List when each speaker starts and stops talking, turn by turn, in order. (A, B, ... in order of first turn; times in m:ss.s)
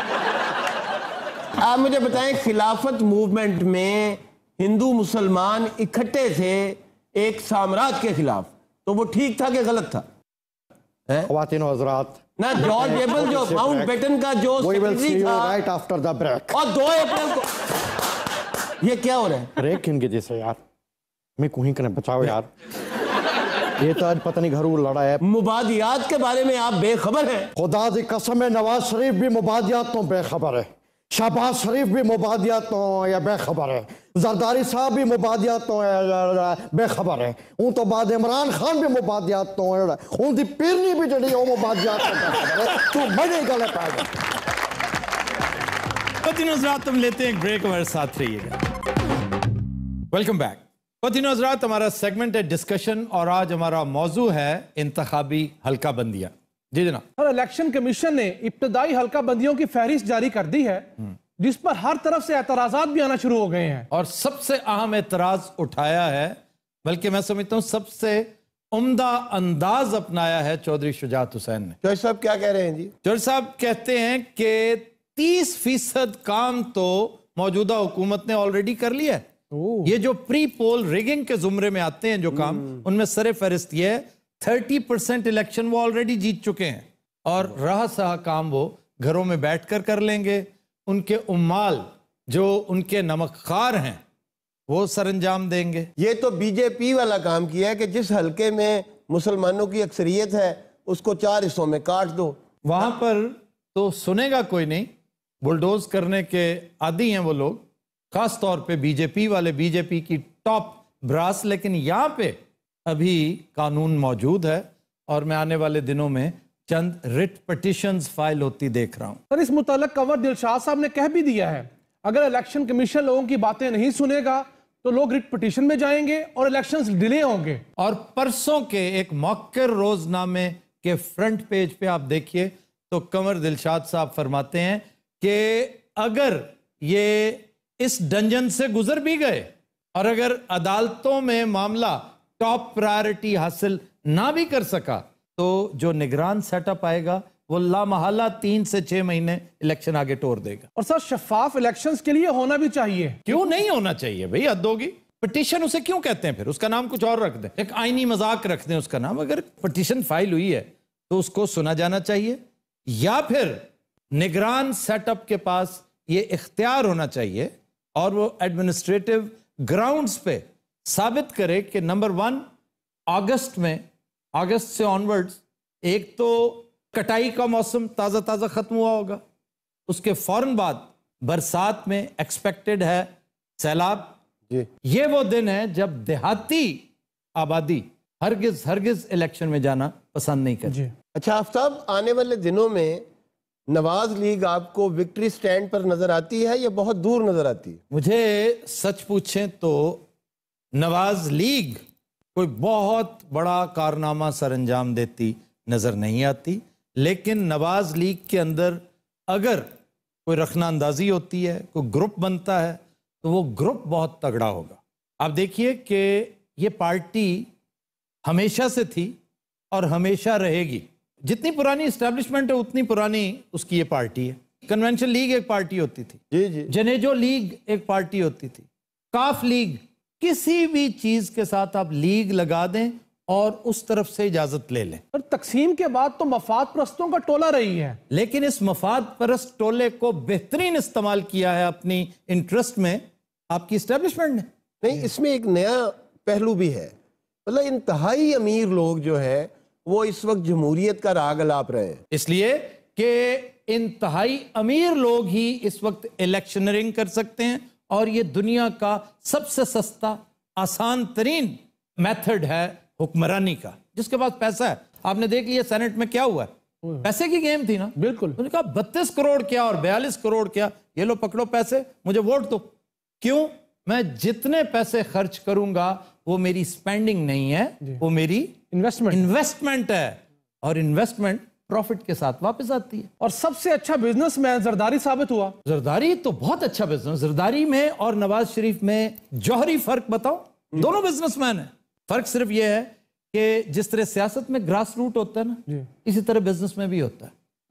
0:01.6-0:10.0 A
0:11.3-0:13.9 B
0:12.4-0:15.6 A
0:14.6-0:16.6 B
0:16.5-0:17.5 A
0:18.8-0:19.5 A
0:19.6-0:20.6 B
0:21.4-0:22.5 B
0:23.8-0:25.2 B
0:25.2-0:27.5 A
0:27.6-0:44.1 B
0:46.2-0:48.6 C
0:50.1-0:57.0 C
0:57.2-1:00.9 D
1:01.4-1:03.9 D
1:03.9-1:11.8 C
1:11.8-1:12.9 A
1:13.0-1:19.3 C
1:19.5-1:19.9 D
1:19.8-1:34.0 C
1:34.7-1:35.9 C
1:36.0-1:42.4 A
1:42.6-1:44.9 C
1:45.4-1:59.2 C
1:59.3-2:07.6 D
2:07.8-2:30.7 C
2:30.8-2:33.3 D
2:33.2-2:52.4 C
2:53.1-2:53.8 C
2:54.3-2:59.2 C
2:59.9-3:04.1 C
3:04.8-3:06.8 C
3:07.4-3:10.8 C
3:10.7-3:10.9 D
3:11.1-3:13.0 A
3:13.7-3:17.8 A
3:17.9-3:20.0 C
3:20.7-3:21.8 C
3:22.3-3:29.7 C
3:30.2-3:37.5 C
3:38.2-3:39.2 C
3:39.7-3:55.0 C
3:55.1-3:58.0 D
3:58.1-4:04.5 C
4:04.8-4:06.9 A
4:07.4-4:12.0 A
4:12.1-4:26.5 C
4:27.0-4:32.7 C
4:28.0-4:28.4 D
4:33.2-4:38.6 C
4:38.7-4:39.2 D
4:39.1-4:43.1 C
4:43.2-4:45.5 D
4:45.6-4:57.3 C